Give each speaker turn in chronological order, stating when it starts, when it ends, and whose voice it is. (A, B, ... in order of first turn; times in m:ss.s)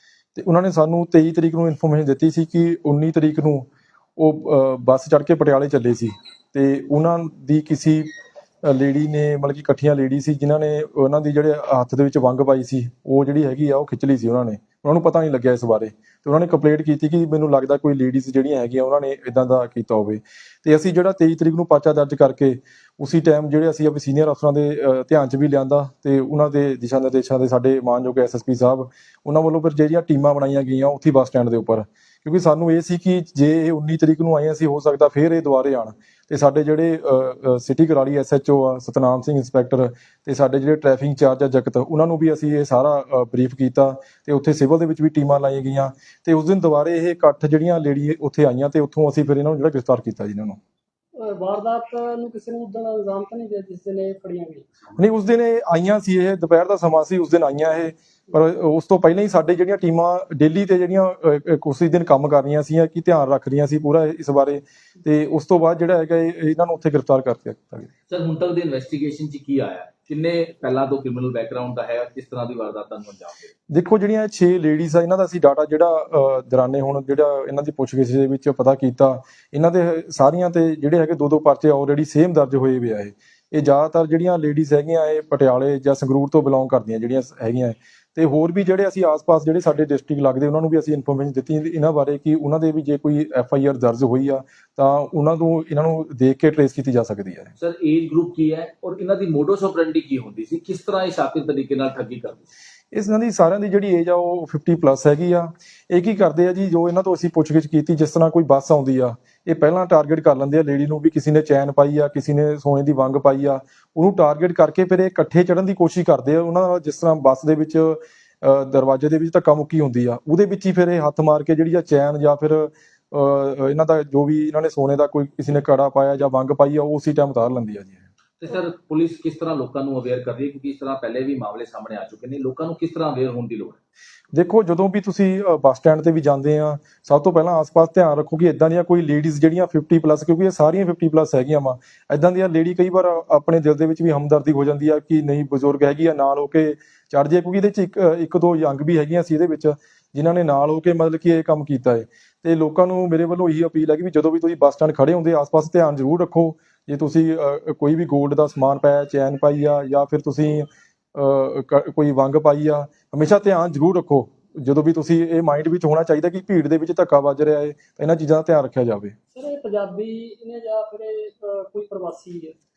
0:00.4-0:08.1 A
0:08.6-0:50.6 A
0:51.2-0:54.7 B
0:54.9-1:07.9 A
1:08.1-1:13.5 C
1:13.7-1:37.5 A
1:37.6-1:42.5 C
1:42.9-2:08.1 A
2:08.4-2:13.8 C
2:14.3-2:49.1 A
2:49.3-2:52.6 B